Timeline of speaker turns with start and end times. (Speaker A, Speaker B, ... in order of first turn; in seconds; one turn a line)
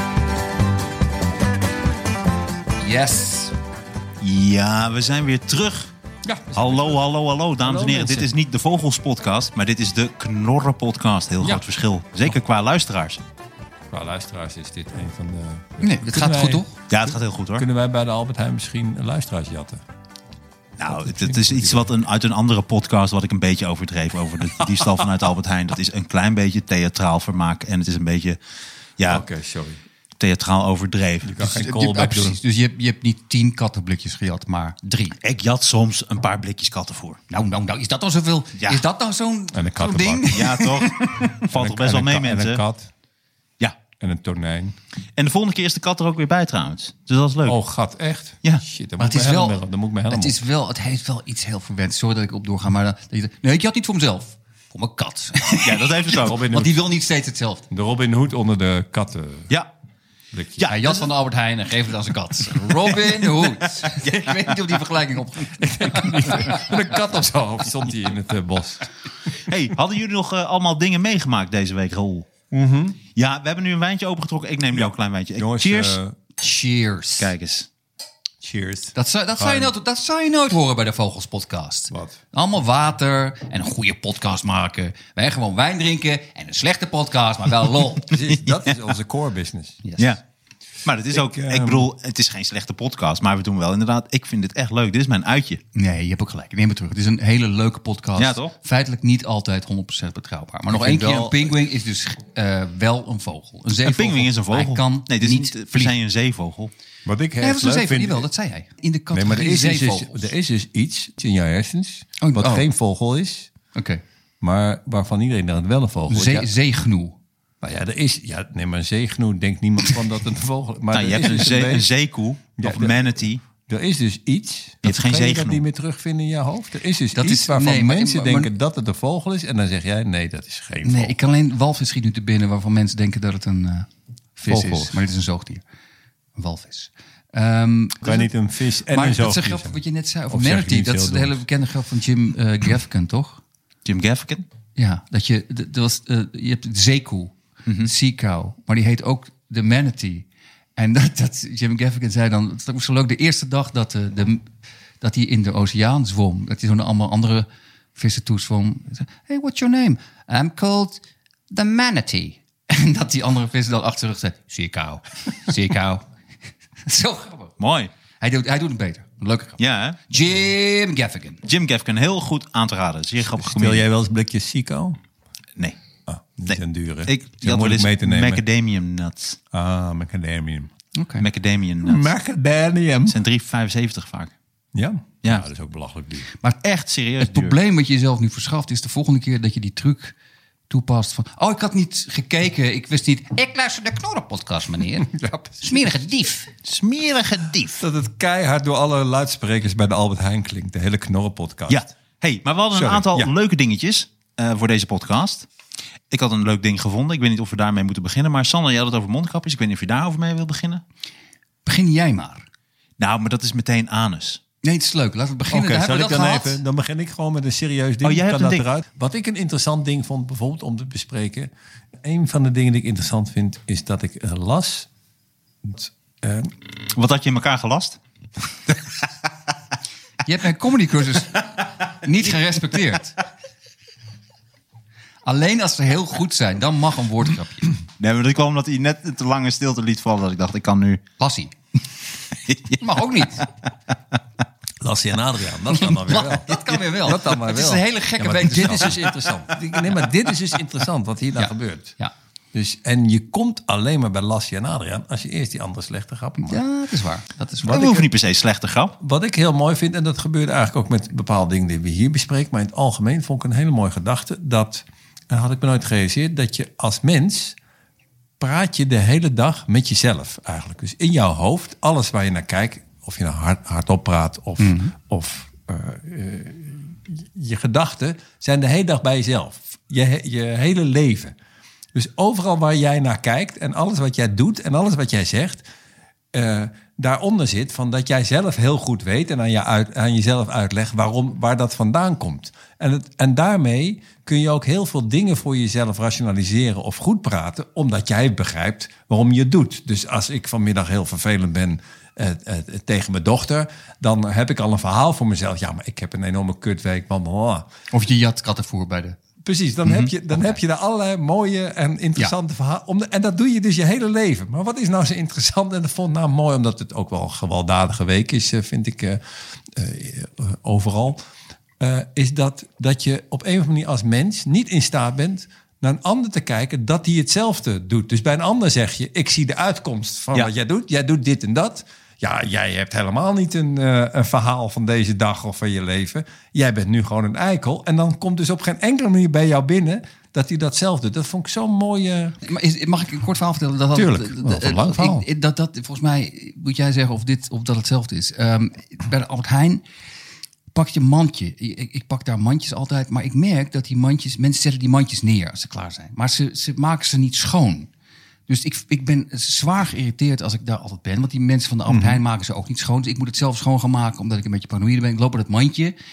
Speaker A: 2.8-3.5
Speaker B: 4.2-5.9
Speaker C: 6.2-7.0
Speaker B: 6.5-13.2
Speaker C: 7.6-8.3
Speaker C: 13.9-19.8
Speaker A: 15.8-16.7
Speaker B: 16.9-17.6
Speaker B: 20.8-28.4
Speaker C: 20.9-21.9
Speaker C: 24.6-25.1
Speaker B: 29.0-29.2
Speaker C: 29.1-29.8
Speaker B: 30.2-31.3
Speaker C: 31.2-32.4
Speaker A: 31.4-35.2
Speaker B: 35.2-37.2
Speaker A: 37.3-41.0
Speaker C: 39.5-42.9
Speaker B: 40.3-42.6
Speaker C: 44.0-44.7
Speaker B: 45.2-47.6
Speaker C: 47.5-50.4
Speaker A: 49.0-57.6
Speaker B: 55.5-56.5
Speaker C: 56.2-56.8
Speaker C: 57.7-59.5
Speaker C: 60.3-60.7
Speaker B: 60.6-61.0
Speaker A: 60.7-66.9
Speaker B: 62.9-64.1
Speaker C: 65.6-68.8
Speaker B: 69.5-72.3
Speaker C: 72.5-73.0
Speaker B: 73.1-76.0
Speaker C: 74.8-76.2
Speaker A: 76.4-77.3
Speaker B: 77.2-77.7
Speaker C: 78.4-79.7
Speaker A: 78.9-88.1
Speaker C: 81.9-82.2
Speaker C: 88.1-89.8
Speaker B: 88.3-88.7
Speaker A: 89.8-90.1
Speaker B: 90.8-95.6
Speaker C: 91.1-91.9
Speaker A: 95.7-105.9
Speaker B: 98.2-98.5
Speaker C: 100.7-101.5
Speaker B: 103.8-106.7
Speaker C: 107.0-108.3
Speaker A: 107.4-110.3
Speaker C: 109.1-113.5
Speaker A: 112.2-112.7
Speaker A: 113.7-114.0
Speaker C: 114.4-116.5
Speaker A: 116.1-117.1
Speaker C: 117.6-121.9
Speaker B: 120.9-123.4
Speaker C: 122.6-131.1
Speaker B: 124.8-125.6
Speaker A: 127.1-128.5
Speaker A: 130.8-135.6
Speaker C: 134.4-135.0
Speaker A: 136.3-138.3
Speaker C: 138.0-139.8
Speaker A: 138.9-143.4
Speaker C: 140.3-141.4
Speaker B: 143.8-144.4
Speaker A: 144.8-154.5
Speaker B: 147.7-147.9
Speaker A: 155.0-166.1
Speaker A: 166.8-167.5
Speaker B: 167.6-167.9
Speaker A: 168.2-171.4
Speaker B: 169.6-170.0
Speaker B: 171.4-173.8
Speaker C: 173.4-175.0
Speaker C: 176.1-178.4
Speaker B: 176.5-179.4
Speaker C: 179.5-180.7
Speaker A: 180.9-181.2
Speaker B: 181.2-182.1
Speaker C: 181.8-183.2
Speaker B: 183.1-184.3
Speaker C: 184.7-186.3
Speaker B: 186.6-187.6
Speaker A: 187.2-190.1
Speaker A: 190.7-196.5
Speaker C: 195.0-195.7
Speaker B: 196.6-197.8
Speaker C: 197.8-201.9
Speaker B: 201.7-205.5
Speaker C: 202.7-203.3
Speaker B: 206.1-210.8
Speaker A: 211.6-212.4
Speaker B: 213.0-214.4
Speaker A: 214.6-216.6
Speaker C: 215.5-224.9
Speaker B: 218.0-218.7
Speaker C: 225.6-226.5
Speaker B: 226.9-228.0
Speaker A: 230.2-233.1
Speaker A: 235.2-237.7
Speaker B: 238.0-241.0
Speaker A: 241.2-241.5
Speaker B: 242.5-242.8
Speaker A: 242.7-243.5
Speaker C: 244.8-251.9
Speaker A: 246.1-249.1
Speaker A: 251.4-252.1
Speaker C: 252.5-256.6
Speaker A: 256.4-257.9
Speaker B: 257.6-258.9
Speaker C: 257.7-258.1
Speaker C: 259.0-267.6
Speaker C: 268.4-281.3
Speaker A: 274.6-274.9
Speaker C: 281.9-285.6
Speaker C: 286.3-307.7
Speaker A: 307.9-309.2
Speaker C: 309.4-321.2
Speaker B: 309.8-310.1
Speaker C: 321.8-342.4
Speaker A: 342.4-349.8
Speaker C: 343.9-345.3
Speaker A: 350.7-357.9
Speaker A: 358.5-365.9
Speaker C: 361.9-362.2